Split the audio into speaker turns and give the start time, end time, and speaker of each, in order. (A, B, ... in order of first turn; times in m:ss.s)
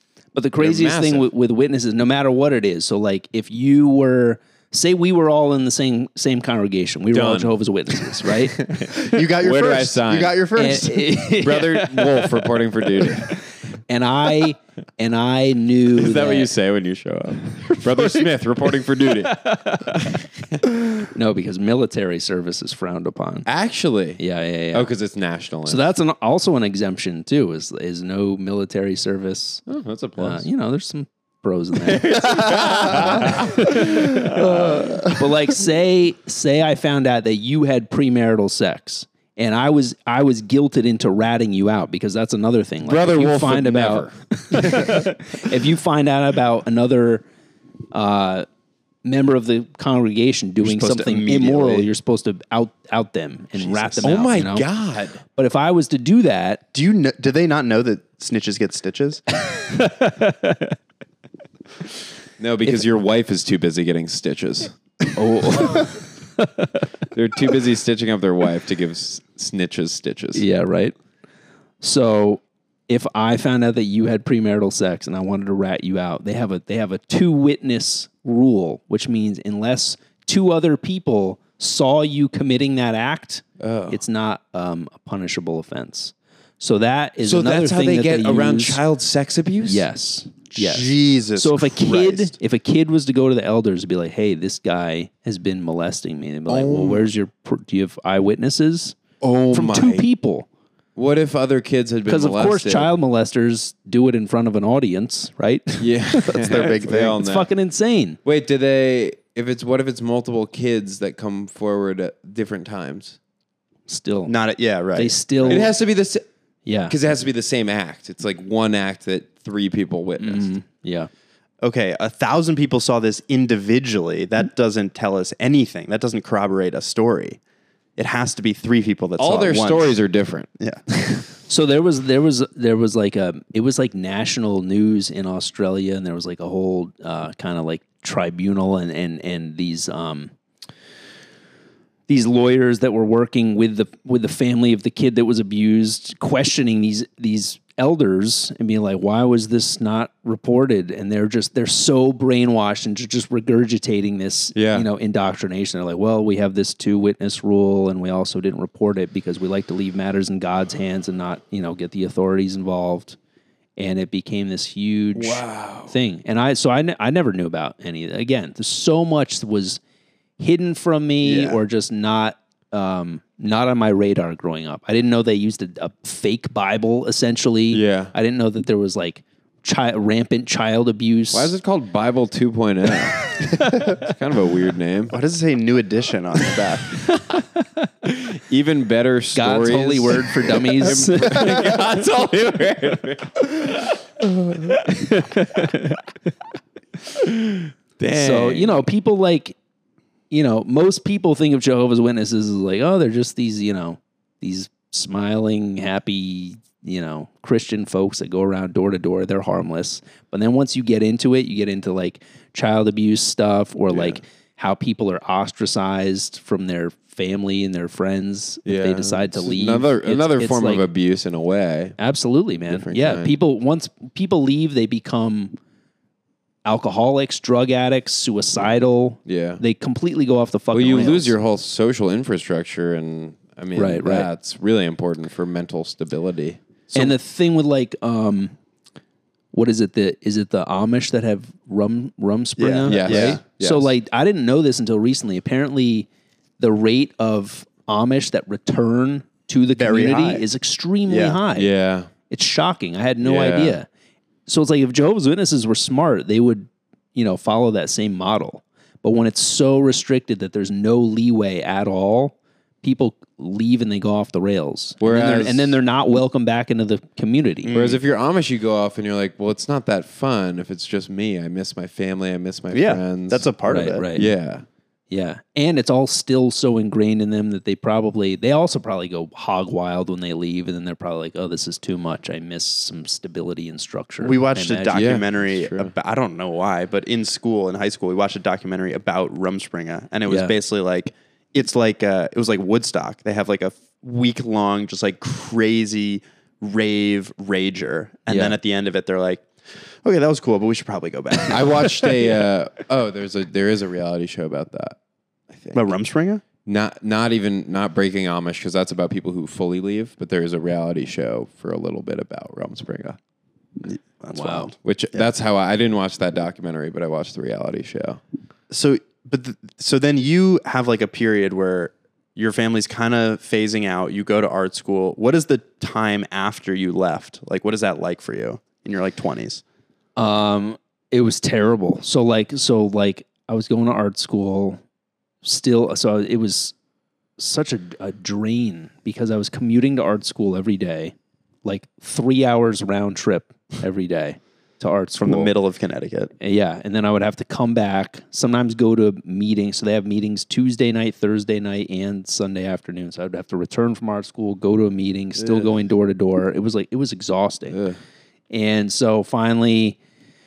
0:00.4-0:08.6 A
0:00.6-0:01.3 B
0:07.1-0:10.4 B
0:09.0-0:11.1 C
0:10.6-0:12.4 A
0:11.1-0:13.4 B
0:13.0-0:16.5 A
0:16.0-0:20.6 B
0:18.0-0:18.2 C
0:19.2-0:20.1 A
0:21.0-0:23.5 A
0:23.5-0:24.2 B
0:24.2-0:24.9 A
0:24.7-0:25.8 B
0:25.7-0:29.6 A
0:29.7-0:30.5 B
0:30.2-0:47.2 A
0:31.8-0:35.1 B
0:34.4-0:35.1 C
0:42.8-0:45.2 B
0:47.9-0:48.5 A
0:49.0-0:54.7 A
0:50.6-0:51.9 C
0:53.6-0:54.2 C
0:54.0-0:55.2 B
0:55.4-0:56.6 A
0:56.7-0:59.2 C
0:59.5-1:00.8 A
1:02.4-1:04.7 B
1:05.2-1:06.8 A
1:07.1-1:10.4 B
1:10.4-1:11.0 A
1:11.8-1:28.8 A
1:23.6-1:24.0 B
1:27.2-1:29.8 B
1:29.6-1:39.0 A
1:30.5-1:32.3 C
1:36.5-1:37.1 B
1:39.2-1:40.1 B
1:39.5-1:40.5 A
1:41.0-1:42.9 B
1:42.1-1:48.2 A
1:45.8-1:47.5 B
1:46.3-1:47.2 C
1:48.2-1:53.2 B
1:53.9-1:54.4 A
1:54.3-1:55.7 C
1:55.0-1:55.7 A
1:55.4-1:56.2 B
1:56.7-1:57.0 A
1:56.9-2:00.5 B
2:00.2-2:01.1 A
2:01.6-2:07.4 C
2:08.0-2:10.0 C
2:09.2-2:11.2 B
2:11.5-2:20.3 A
2:22.1-2:43.2 A
2:34.6-2:34.9 B
2:43.8-2:49.8 A
2:45.2-2:45.9 B
2:50.4-3:01.5 A
2:51.2-2:51.6 C
2:57.7-2:58.1 B
3:01.3-3:05.2 B
3:03.4-3:03.9 A
3:05.1-3:06.9 C
3:07.2-3:07.6 A
3:08.0-3:14.0 B
3:09.4-3:11.9 A
3:14.6-3:15.1 B
3:14.7-3:16.0 A
3:17.1-3:18.8 B
3:18.1-3:19.6 A
3:20.3-3:40.9 A
3:33.9-3:34.2 B
3:38.7-3:42.0 B
3:42.0-3:45.6 A
3:42.7-3:43.4 B
3:46.6-3:51.4 A
3:49.2-3:49.6 B
3:50.7-3:57.2 B
3:53.8-3:54.3 A
3:56.9-3:58.6 A
3:59.5-4:06.1 A
4:02.6-4:03.4 C
4:02.9-4:03.9 B
4:06.6-4:11.7 A
4:09.8-4:10.4 C
4:11.1-4:11.4 C
4:11.6-4:12.1 B
4:12.3-4:13.9 A
4:13.2-4:13.8 B
4:14.5-4:27.7 A
4:25.0-4:25.8 B
4:27.6-4:28.0 C
4:27.7-4:33.5 B
4:32.7-4:34.1 C
4:33.7-4:34.3 A
4:34.2-4:34.6 B
4:35.1-4:45.2 A
4:44.2-5:02.4 C
4:44.9-4:45.9 B
4:50.3-4:50.5 A
4:58.3-4:58.6 A
5:01.5-5:05.0 B
5:05.5-5:05.8 B
5:05.7-5:06.4 C
5:06.6-5:13.2 B
5:13.8-5:15.2 C
5:14.3-5:14.7 A
5:14.8-5:18.2 B
5:18.7-5:29.6 C
5:30.2-5:34.8 A
5:35.4-5:36.8 A
5:37.4-5:41.1 A
5:41.6-5:45.5 A
5:45.2-5:46.3 C
5:46.4-5:57.8 A
5:55.4-5:55.7 B
5:57.7-5:58.0 B
5:58.5-6:00.0 A